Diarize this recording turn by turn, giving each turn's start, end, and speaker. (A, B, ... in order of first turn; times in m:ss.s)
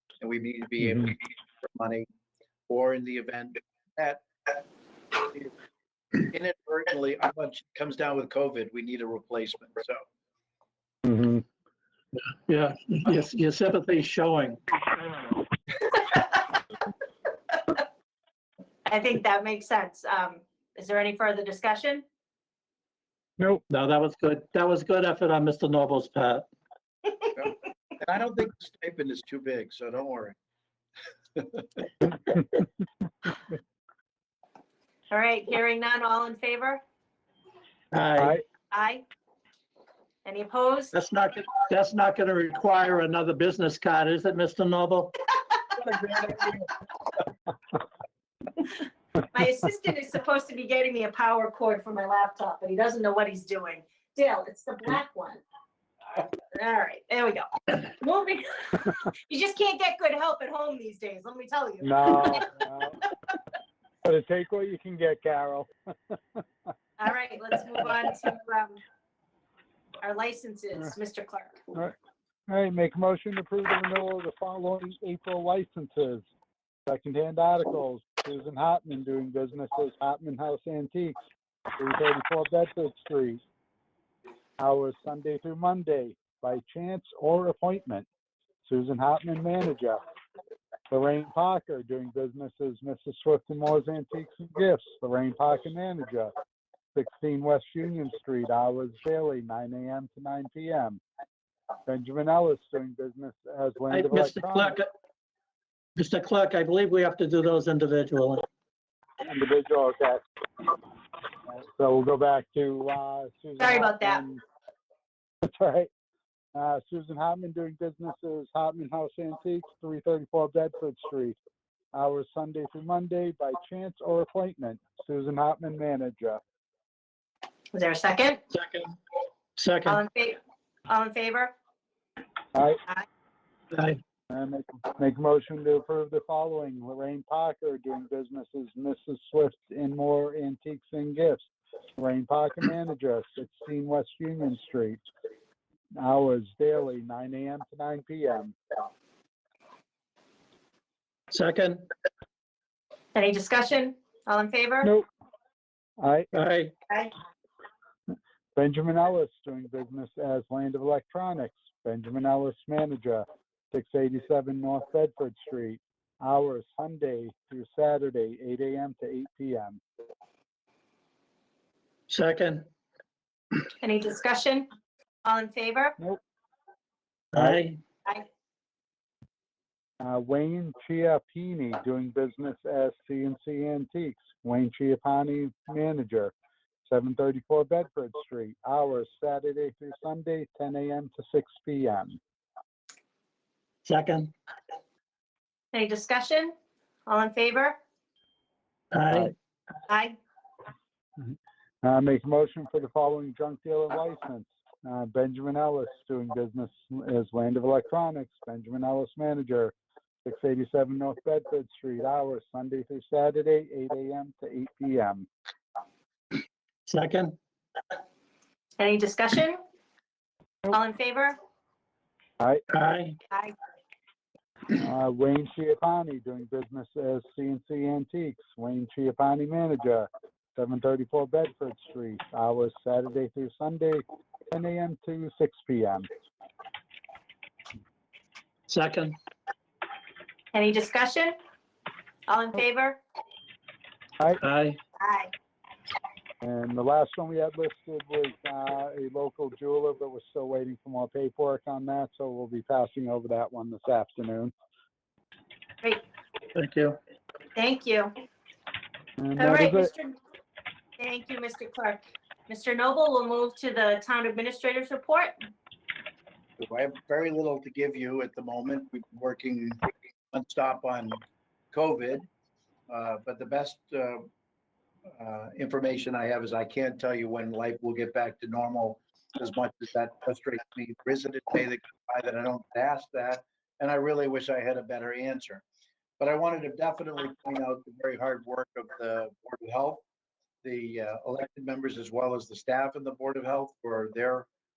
0:00.2-0:02.1 A
0:02.7-0:04.2 A
0:05.2-0:05.5 A
0:06.2-0:10.0 A
0:11.0-0:11.4 B
0:12.5-0:14.6 C
0:18.8-0:22.0 D
0:23.7-0:26.4 C
0:27.3-0:30.4 A
0:31.4-0:31.8 A
0:35.1-0:36.8 D
0:37.9-0:38.4 C
0:38.7-0:39.0 D
0:40.2-0:40.9 D
0:40.9-0:45.3 C
0:45.8-0:46.4 C
0:49.3-0:55.4 D
0:56.2-1:02.5 D
1:01.8-1:03.0 B
1:04.0-1:06.4 B
1:07.0-1:08.8 D
1:10.0-1:11.6 D
1:12.5-1:16.2 B
1:16.8-1:21.1 B
1:21.8-1:23.4 B
1:24.6-1:28.0 B
1:28.6-1:30.0 B
1:30.9-1:36.3 B
1:36.9-1:41.0 B
1:41.8-1:44.8 B
1:43.9-1:44.9 C
1:46.0-1:48.4 C
1:49.2-1:50.2 B
1:51.6-1:54.4 B
1:53.6-1:54.2 D
1:55.4-1:55.9 B
1:56.5-2:01.4 B
2:01.9-2:06.4 B
2:07.7-2:08.4 D
2:08.5-2:09.0 C
2:09.6-2:10.0 C
2:09.8-2:10.4 D
2:10.9-2:11.5 D
2:12.5-2:12.8 B
2:13.7-2:14.0 C
2:14.3-2:25.0 B
2:26.0-2:28.6 B
2:31.3-2:31.9 C
2:33.1-2:34.9 D
2:36.0-2:36.3 B
2:36.3-2:36.7 C
2:38.6-2:49.8 B
2:52.1-2:52.7 C
2:53.8-2:54.7 D
2:55.2-2:55.9 D
2:57.3-2:57.8 C
2:57.4-2:57.6 B
3:00.0-3:06.3 B
3:06.8-3:12.2 B
3:13.8-3:14.3 C
3:15.7-3:16.5 D
3:17.1-3:17.8 D
3:18.9-3:19.3 C
3:19.9-3:20.2 D
3:21.8-3:29.7 B
3:30.2-3:35.3 B
3:36.9-3:37.4 C
3:38.8-3:39.6 D
3:40.7-3:41.4 D
3:42.7-3:43.2 C
3:44.7-3:56.1 B
3:58.7-3:59.2 C
4:00.5-4:01.4 D
4:02.3-4:03.0 D
4:04.4-4:04.8 C
4:05.0-4:05.3 D
4:06.4-4:14.5 B
4:16.5-4:17.0 C
4:17.6-4:18.1 D
4:19.2-4:19.9 B
4:19.4-4:20.2 D
4:21.0-4:25.4 D
4:26.6-4:31.2 A
4:31.7-4:32.3 A
4:32.9-4:34.3 A
4:35.2-4:45.6 A
4:46.2-4:50.0 A
4:50.6-4:54.5 A